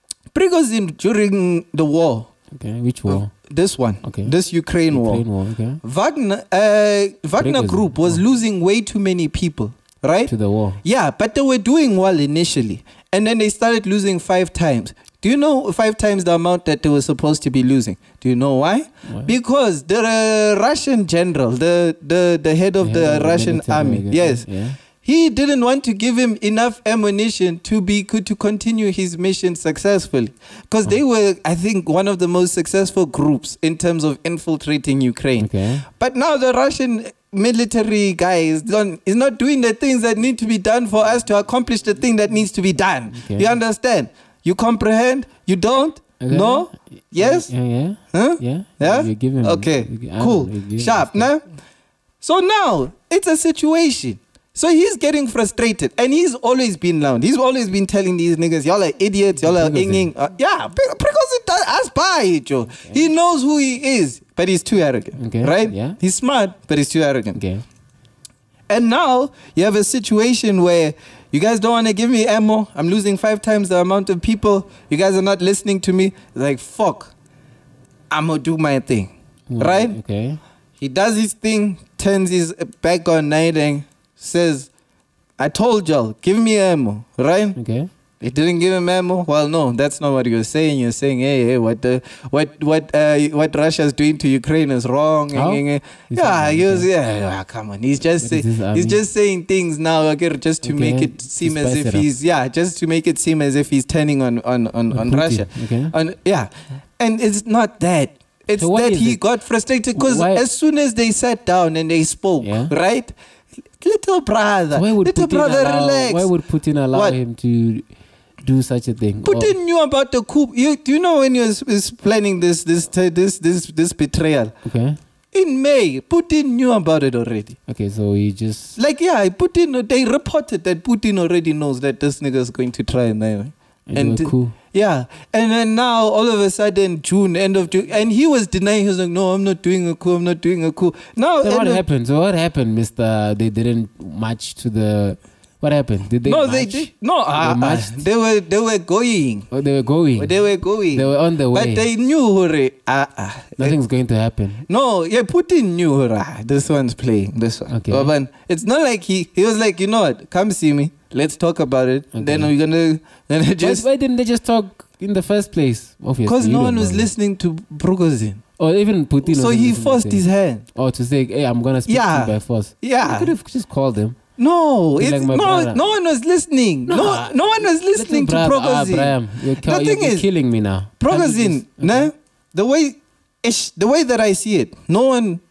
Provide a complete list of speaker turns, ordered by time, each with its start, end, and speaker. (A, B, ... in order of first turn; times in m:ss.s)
0:00.3-0:02.3 A
0:02.5-0:03.3 B
0:03.1-0:05.2 A
0:04.0-0:04.3 B
0:04.9-0:05.8 B
0:05.8-0:10.3 A
0:07.4-0:08.2 B
0:10.3-0:10.8 B
0:10.8-0:47.5 A
0:19.0-0:19.3 B
0:22.8-0:24.8 B
0:35.4-0:35.8 B
0:43.1-0:43.5 B
0:46.2-0:51.3 B
0:48.1-0:51.4 A
0:52.2-1:07.4 A
0:59.4-1:00.1 B
1:05.2-1:06.0 B
1:07.3-1:07.6 B
1:08.7-1:17.1 A
1:18.1-1:20.0 A
1:19.5-1:20.4 B
1:20.8-1:24.7 A
1:25.4-1:27.6 A
1:27.6-1:27.9 B
1:28.2-1:53.1 A
1:35.3-1:36.9 B
1:38.2-1:39.0 B
1:40.6-1:42.1 B
1:44.9-1:45.9 B
1:48.5-1:49.3 B
1:49.9-1:50.4 B
1:52.4-1:52.7 B
1:53.8-1:56.3 A
1:54.7-1:59.5 B
1:56.9-1:57.2 A
1:59.2-2:04.5 A
2:04.6-2:05.0 B
2:05.3-2:07.6 A
2:07.7-2:08.8 B
2:08.8-2:21.8 A
2:13.9-2:14.6 B
2:21.4-2:28.0 B
2:26.2-2:29.5 A
2:29.5-2:31.8 B
2:30.2-2:33.8 A
2:33.6-2:34.6 B
2:34.7-2:43.8 A
2:37.7-2:38.1 B
2:42.1-2:42.5 B
2:43.6-2:47.1 B
2:46.2-2:48.4 A
2:48.6-2:54.2 B
2:49.2-2:50.6 A
2:51.9-2:53.3 A
2:54.4-3:00.3 A
2:55.0-2:55.8 B
2:56.9-3:02.1 B
3:01.0-3:05.4 A